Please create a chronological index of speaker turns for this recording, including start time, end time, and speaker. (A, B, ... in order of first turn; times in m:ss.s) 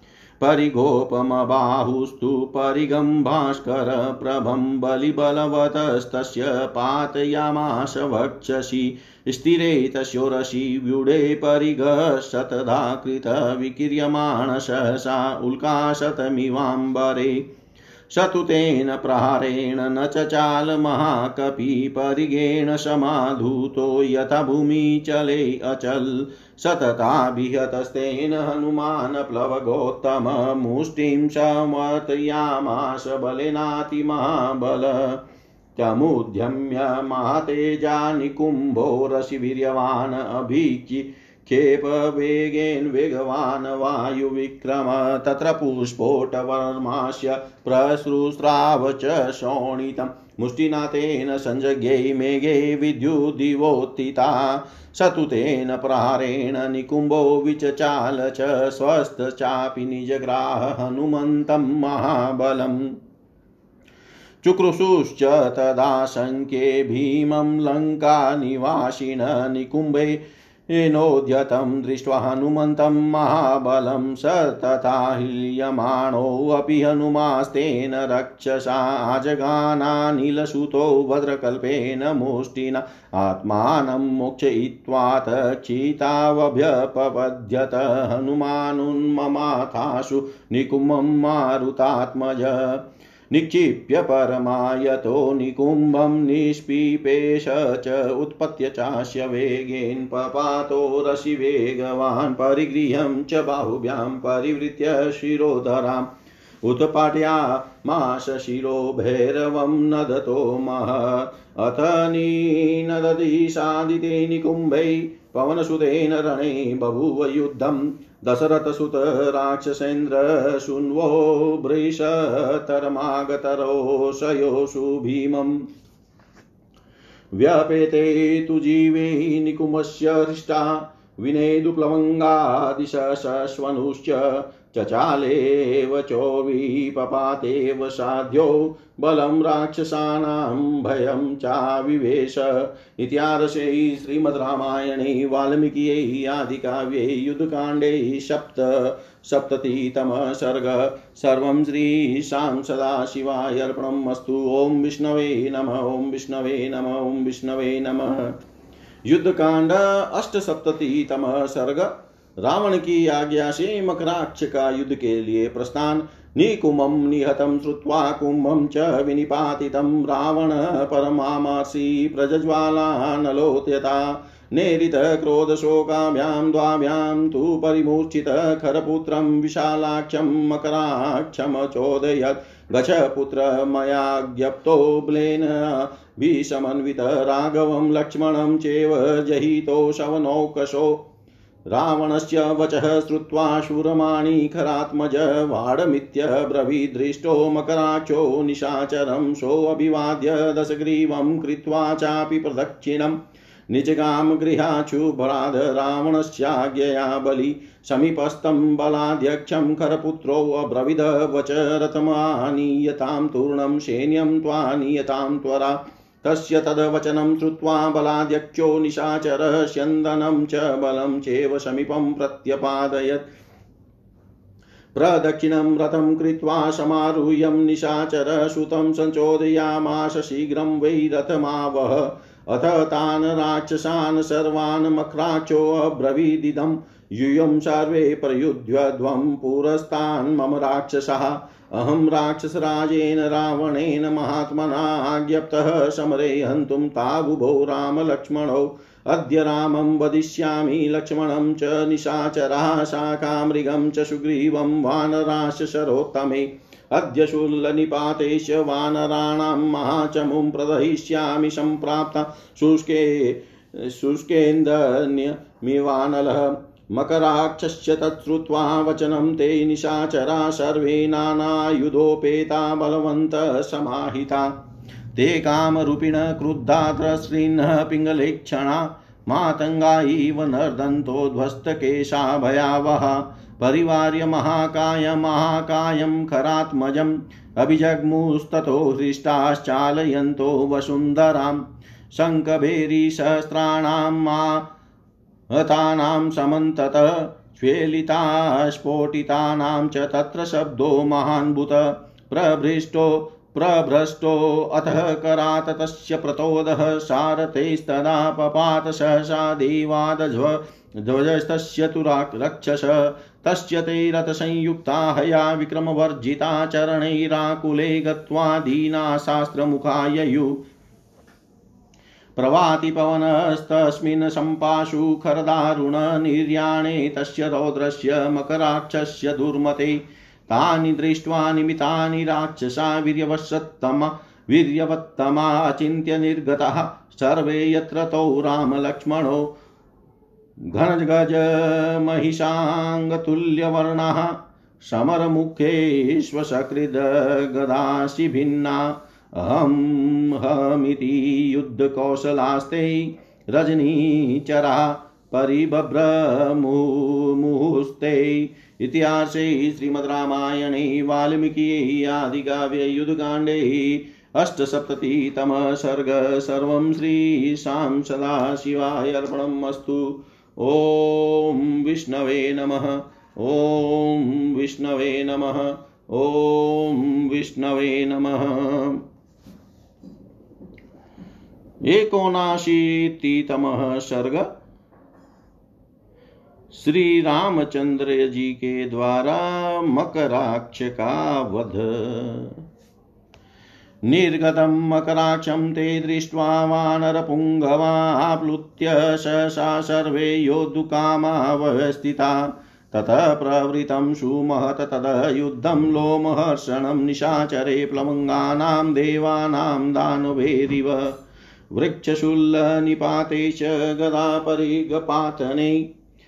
0:00.4-0:17.5 A
0:18.1-0:35.2 A
0:35.8-1:02.9 A
1:04.4-1:46.1 A
1:46.6-2:05.6 A
2:07.4-2:38.3 A
2:39.1-3:11.0 A
3:11.7-3:23.2 A
3:23.7-3:43.2 A
3:44.9-4:34.5 A
4:35.1-4:54.6 A
4:55.5-5:20.6 A
5:22.4-5:39.5 A
5:40.7-6:19.0 A
6:21.8-6:24.5 A
6:26.7-6:32.6 A
6:34.1-6:51.2 A
6:51.7-6:55.9 A